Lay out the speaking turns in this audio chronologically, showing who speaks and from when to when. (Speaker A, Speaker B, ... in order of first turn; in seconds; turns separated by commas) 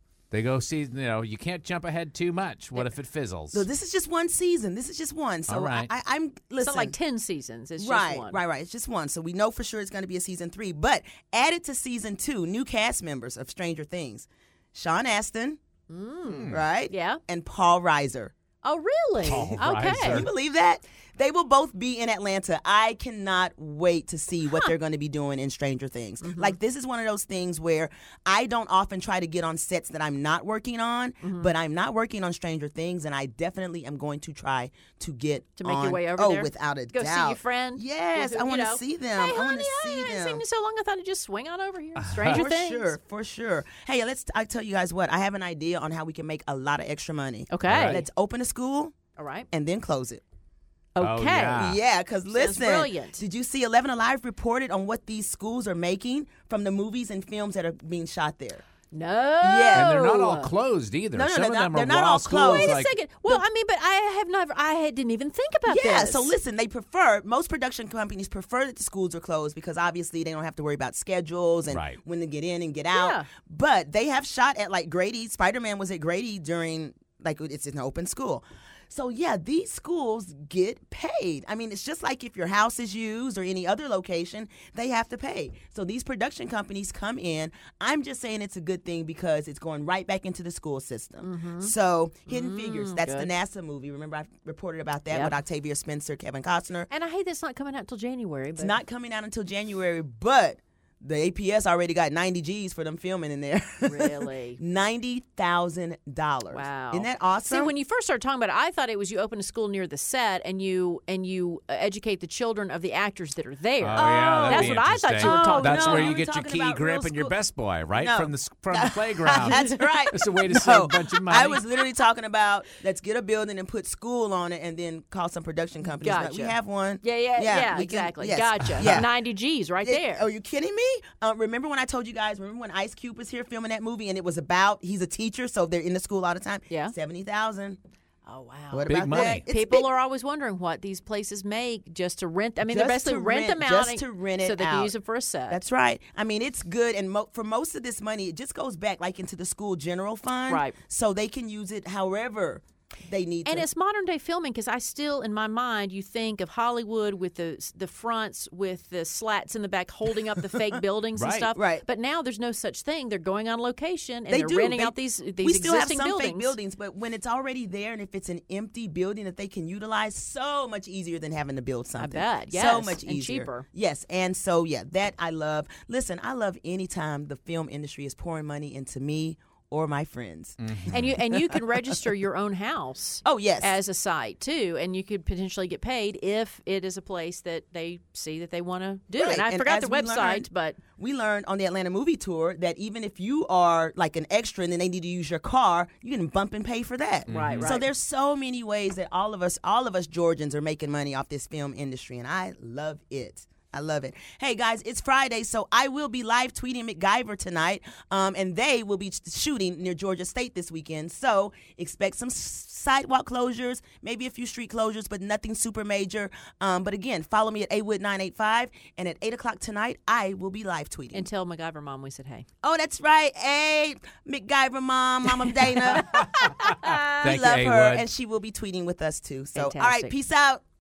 Speaker A: 0.3-3.7, Speaker B: 3.5-7.0, Speaker A: 5.5-5.9, Speaker C: 6.6-8.4, Speaker B: 7.8-15.6, Speaker C: 15.9-17.2, Speaker A: 16.2-16.6, Speaker B: 16.5-18.3, Speaker C: 18.6-20.3, Speaker A: 19.2-20.3, Speaker B: 19.3-40.4, Speaker C: 26.2-26.6, Speaker C: 31.2-31.5, Speaker C: 35.6-43.0, Speaker A: 42.0-42.4, Speaker B: 42.3-48.9, Speaker C: 47.5-48.0, Speaker A: 47.7-48.0, Speaker C: 49.1-49.5, Speaker B: 49.5-50.2, Speaker C: 50.9-51.7, Speaker A: 51.0-51.8, Speaker B: 51.6-58.6, Speaker C: 52.3-53.2, Speaker C: 58.9-60.5, Speaker B: 59.4-59.9, Speaker A: 59.7-62.9, Speaker B: 61.1-63.4, Speaker C: 62.3-66.3, Speaker B: 65.7-96.9, Speaker A: 71.7-72.0, Speaker C: 72.9-73.3, Speaker C: 91.2-91.7, Speaker C: 92.3-93.3, Speaker C: 95.1-95.4, Speaker C: 96.9-98.8, Speaker B: 98.5-107.7, Speaker C: 103.8-104.6, Speaker C: 106.5-116.2, Speaker A: 113.8-121.6, Speaker B: 114.0-117.3, Speaker B: 117.9-129.1, Speaker C: 119.3-119.7, Speaker C: 125.8-130.3, Speaker A: 128.8-129.0, Speaker B: 129.8-137.8, Speaker C: 138.2-145.6, Speaker B: 138.7-139.9, Speaker A: 138.9-139.4, Speaker B: 142.6-144.9, Speaker B: 145.5-153.7, Speaker C: 150.5-150.8, Speaker C: 153.4-166.6, Speaker A: 161.2-161.5, Speaker B: 161.5-161.8, Speaker B: 164.3-181.6, Speaker C: 171.9-173.7, Speaker A: 180.6-181.1, Speaker C: 180.9-190.8, Speaker B: 183.2-183.8, Speaker B: 189.2-221.3, Speaker A: 197.3-197.8, Speaker C: 197.3-197.8, Speaker C: 221.1-222.4, Speaker B: 222.6-230.6, Speaker A: 225.9-228.1, Speaker C: 229.5-230.1